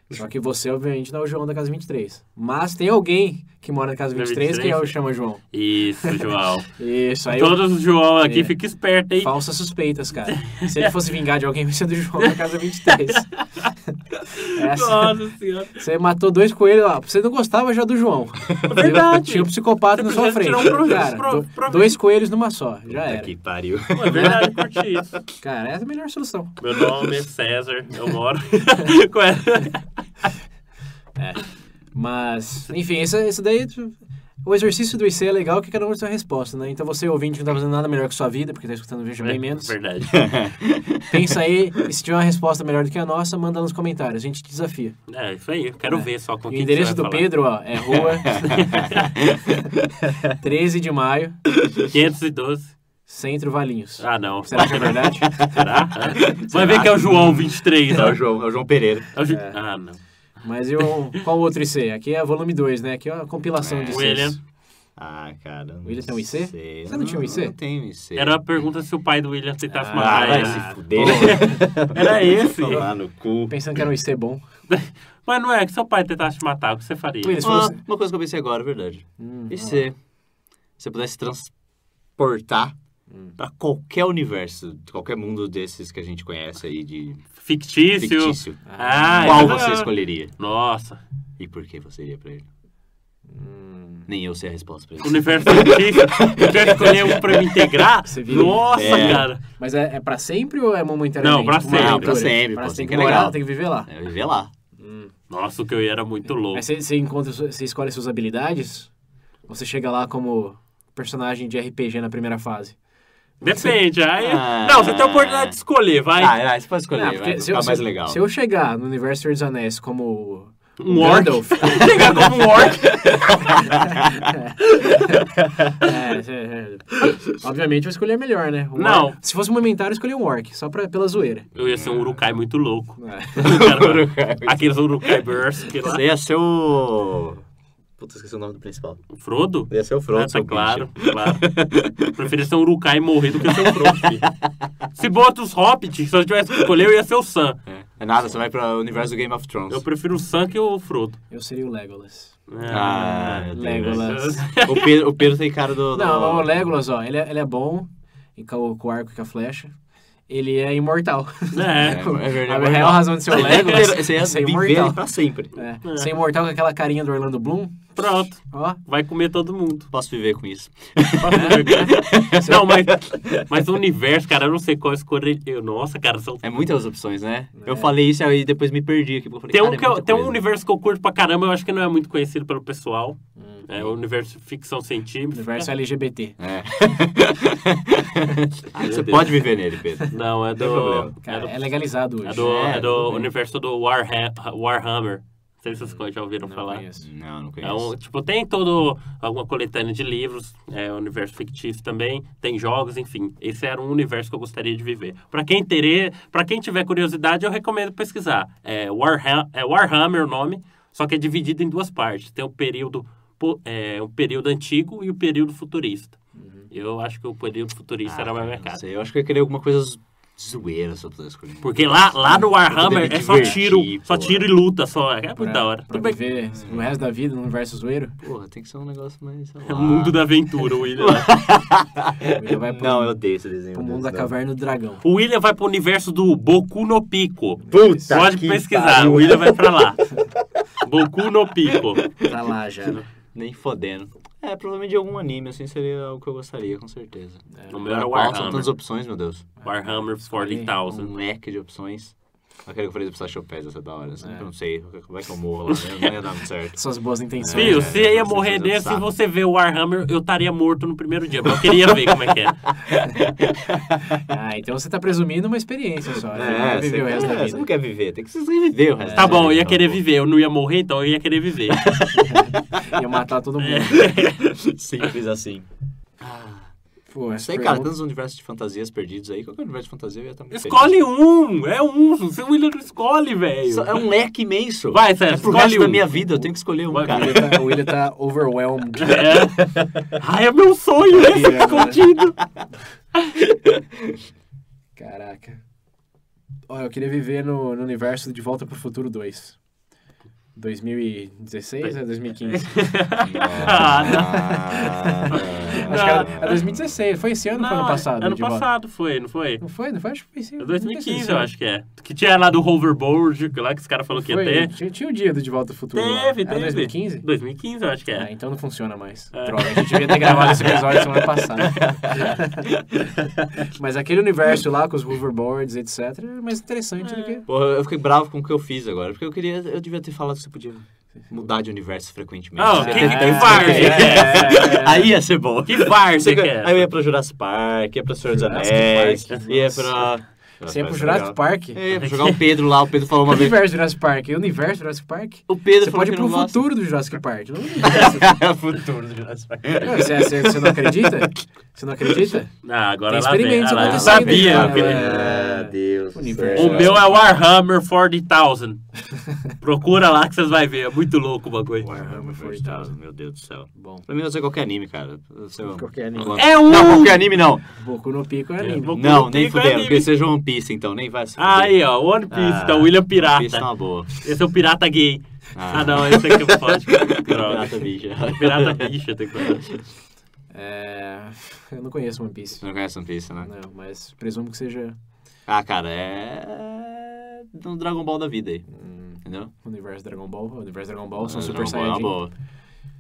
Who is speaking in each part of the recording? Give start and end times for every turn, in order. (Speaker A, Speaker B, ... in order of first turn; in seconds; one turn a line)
Speaker A: 0.1-5.4
Speaker B: 4.1-5.0
Speaker B: 5.5-6.7
Speaker A: 6.8-7.7
Speaker B: 7.3-9.3
Speaker A: 8.2-8.6
Speaker A: 9.2-13.3
Speaker B: 10.3-10.9
Speaker B: 12.2-13.7
Speaker B: 14.3-15.8
Speaker A: 14.5-15.2
Speaker A: 15.8-23.3
Speaker C: 18.6-18.9
Speaker B: 18.6-22.0
Speaker C: 22.9-24.6
Speaker B: 23.9-25.1
Speaker A: 25.4-26.6
Speaker B: 26.6-30.3
Speaker A: 31.2-39.8
Speaker B: 39.2-40.4
Speaker C: 40.1-41.2
Speaker A: 41.1-45.0
Speaker B: 45.1-47.5
Speaker A: 45.9-48.8
Speaker C: 47.9-49.6
Speaker B: 48.4-49.1
Speaker A: 50.3-51.4
Speaker B: 51.9-52.8
Speaker A: 53.1-55.5
Speaker B: 54.0-58.2
Speaker C: 54.6-59.1
Speaker B: 59.1-60.0
Speaker A: 59.3-59.6
Speaker A: 60.4-64.4
Speaker C: 63.6-64.3
Speaker B: 63.9-64.4
Speaker C: 65.0-68.5
Speaker A: 65.8-67.6
Speaker B: 68.2-72.9
Speaker A: 69.7-71.7
Speaker C: 69.9-73.8
Speaker A: 73.5-74.4
Speaker B: 74.7-77.5
Speaker A: 77.2-77.8
Speaker C: 77.4-80.0
Speaker A: 79.2-79.9
Speaker C: 80.8-81.5
Speaker C: 82.2-82.7
Speaker A: 83.1-83.4
Speaker C: 83.4-87.2
Speaker B: 87.4-91.0
Speaker C: 88.0-88.6
Speaker A: 88.7-89.6
Speaker C: 89.1-90.3
Speaker C: 91.4-92.5
Speaker A: 93.3-94.1
Speaker C: 94.1-97.6
Speaker B: 95.0-99.4
Speaker A: 98.0-103.9
Speaker C: 98.4-99.3
Speaker B: 101.2-102.3
Speaker C: 101.7-104.5
Speaker A: 104.8-105.1
Speaker B: 105.3-106.7
Speaker A: 106.5-108.9
Speaker A: 109.5-112.8
Speaker B: 113.4-116.4
Speaker A: 113.4-113.7
Speaker C: 114.2-115.6
Speaker C: 116.2-118.2
Speaker A: 116.9-122.5
Speaker B: 120.8-123.3
Speaker C: 122.5-123.9
Speaker A: 123.7-125.2
Speaker A: 125.8-131.5
Speaker B: 128.8-129.2
Speaker C: 131.6-132.2
Speaker B: 131.6-136.0
Speaker A: 133.0-133.5
Speaker C: 133.4-135.2
Speaker C: 135.8-137.4
Speaker C: 138.0-139.1
Speaker B: 139.1-141.6
Speaker C: 139.7-142.1
Speaker B: 142.1-144.2
Speaker C: 143.4-144.5
Speaker B: 145.0-147.6
Speaker C: 147.7-149.8
Speaker B: 149.7-151.2
Speaker A: 151.3-152.4
Speaker B: 152.5-155.0
Speaker C: 152.7-156.6
Speaker A: 153.5-154.5
Speaker A: 155.9-159.7
Speaker A: 160.3-168.8
Speaker B: 161.5-162.2
Speaker C: 161.8-165.6
Speaker B: 163.3-163.9
Speaker B: 165.8-166.1
Speaker B: 168.0-169.9
Speaker C: 169.9-173.5
Speaker A: 171.2-172.6
Speaker B: 171.3-176.6
Speaker C: 176.4-180.4
Speaker A: 177.6-177.9
Speaker B: 179.5-185.7
Speaker A: 183.4-183.7
Speaker A: 185.3-186.4
Speaker C: 186.4-191.2
Speaker B: 188.8-189.4
Speaker B: 190.1-196.8
Speaker A: 191.2-193.3
Speaker C: 192.3-193.0
Speaker A: 195.7-197.1
Speaker C: 197.0-197.9
Speaker B: 197.6-216.2
Speaker A: 216.3-216.7
Speaker B: 216.7-218.8
Speaker C: 218.1-224.5
Speaker B: 221.6-226.2
Speaker A: 223.3-223.6
Speaker A: 225.4-228.2
Speaker C: 226.5-227.0
Speaker C: 228.2-230.3
Speaker B: 229.7-231.4
Speaker C: 231.0-234.3
Speaker A: 232.3-235.0
Speaker B: 235.0-240.0
Speaker A: 237.7-238.2
Speaker C: 237.7-239.8
Speaker B: 240.8-242.1
Speaker A: 242.2-243.0
Speaker C: 243.3-249.5
Speaker A: 247.5-247.8
Speaker B: 247.7-248.8
Speaker A: 249.6-250.8
Speaker B: 249.6-251.1
Speaker C: 250.9-256.8
Speaker A: 254.2-254.5
Speaker B: 255.7-256.1
Speaker A: 256.7-257.9
Speaker C: 257.4-259.1
Speaker B: 257.5-262.6
Speaker C: 262.9-264.1
Speaker A: 264.2-267.7
Speaker C: 266.3-270.0
Speaker A: 269.0-269.4
Speaker B: 269.1-272.2
Speaker A: 272.1-274.1
Speaker B: 273.6-274.4
Speaker C: 273.9-275.7
Speaker C: 276.2-276.7
Speaker A: 277.1-277.9
Speaker C: 277.4-281.0
Speaker B: 280.5-284.0
Speaker C: 283.7-287.8
Speaker B: 284.9-286.2
Speaker A: 286.1-289.5
Speaker B: 286.9-287.4
Speaker B: 288.9-292.4
Speaker A: 291.1-292.0
Speaker A: 295.0-295.6
Speaker A: 296.7-299.6
Speaker A: 300.6-302.9
Speaker B: 301.8-304.4
Speaker C: 303.2-306.8
Speaker A: 303.7-308.7
Speaker B: 305.3-306.6
Speaker B: 307.5-309.6
Speaker A: 309.6-311.5
Speaker B: 310.6-314.7
Speaker A: 314.1-317.3
Speaker B: 315.9-318.3
Speaker A: 318.1-322.7
Speaker B: 319.3-321.3
Speaker C: 321.6-322.3
Speaker A: 323.7-327.5
Speaker B: 327.0-327.4
Speaker C: 327.5-343.6
Speaker B: 332.6-334.6
Speaker A: 332.8-335.2
Speaker B: 335.6-336.9
Speaker A: 338.2-341.8
Speaker B: 339.3-339.6
Speaker B: 341.9-342.5
Speaker A: 343.3-348.4
Speaker C: 345.5-346.6
Speaker C: 347.8-351.1
Speaker A: 349.8-352.5
Speaker B: 352.6-355.1
Speaker A: 353.1-357.3
Speaker C: 353.8-357.1
Speaker B: 356.5-358.8
Speaker B: 359.6-361.9
Speaker C: 361.8-367.6
Speaker A: 361.9-362.9
Speaker A: 363.7-364.1
Speaker A: 365.6-366.4
Speaker B: 366.3-367.2
Speaker A: 367.7-368.9
Speaker B: 368.6-370.1
Speaker C: 368.9-371.8
Speaker B: 371.4-379.7
Speaker C: 372.3-374.1
Speaker C: 375.6-379.4
Speaker A: 380.5-382.6
Speaker C: 382.6-383.5
Speaker A: 383.4-385.0
Speaker C: 385.5-388.6
Speaker A: 388.7-392.2
Speaker C: 389.2-389.5
Speaker C: 391.2-392.3